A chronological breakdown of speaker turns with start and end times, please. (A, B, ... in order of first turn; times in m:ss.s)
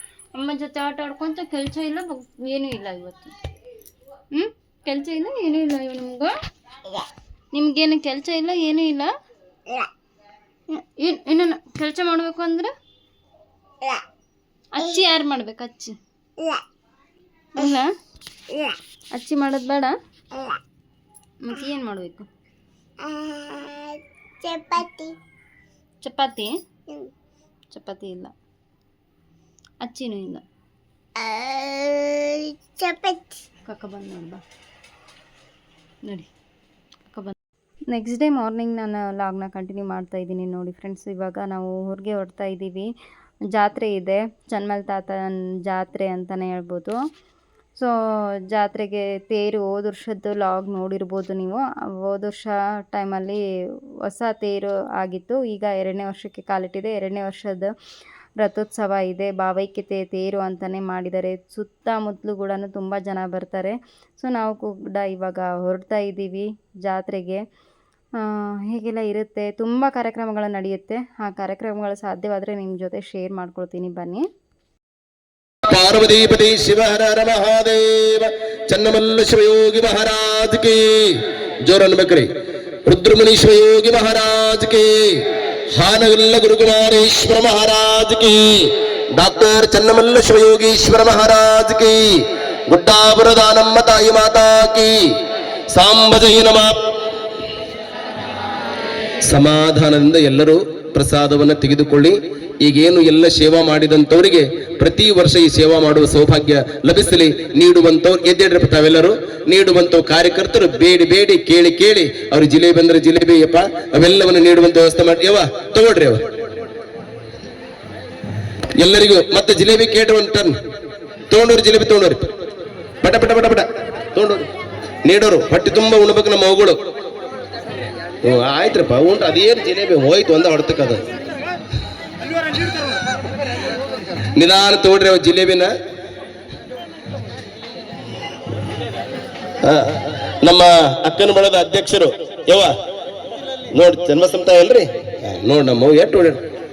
0:00.3-0:03.3 A
0:04.3-0:06.3 A
0:07.5-0:09.1 A
0:10.7-0:12.7 A
0:14.7-0:15.9 A
0:17.6-0:17.9 A
0:18.5-0:18.8 B
0:19.1-0:19.9 A
0:20.3-0:20.6 B
0:21.4-0:22.3 A
0:23.0-0:25.2 B
0:26.0-0:26.5 A
0:27.7-0:28.3 A
0:29.8-0:30.4 A
0:31.2-0:33.4 B
0:33.6-0:34.4 A
0:37.1-0:37.3 A
0:37.9-0:42.9 A
0:43.5-0:47.0 A
0:48.5-0:53.4 A
0:54.0-0:57.7 A
0:58.4-1:07.4 A
1:08.2-1:14.2 A
1:15.7-1:22.3 C
1:22.8-1:25.2 C
1:25.7-1:35.0 C
1:35.7-1:36.8 C
1:39.2-1:56.2 C
1:58.8-2:00.5 C
2:01.3-2:02.3 C
2:03.0-2:04.5 C
2:05.0-2:06.8 C
2:08.2-2:11.0 C
2:14.4-2:15.7 C
2:19.6-2:22.7 C
2:23.7-2:26.4 C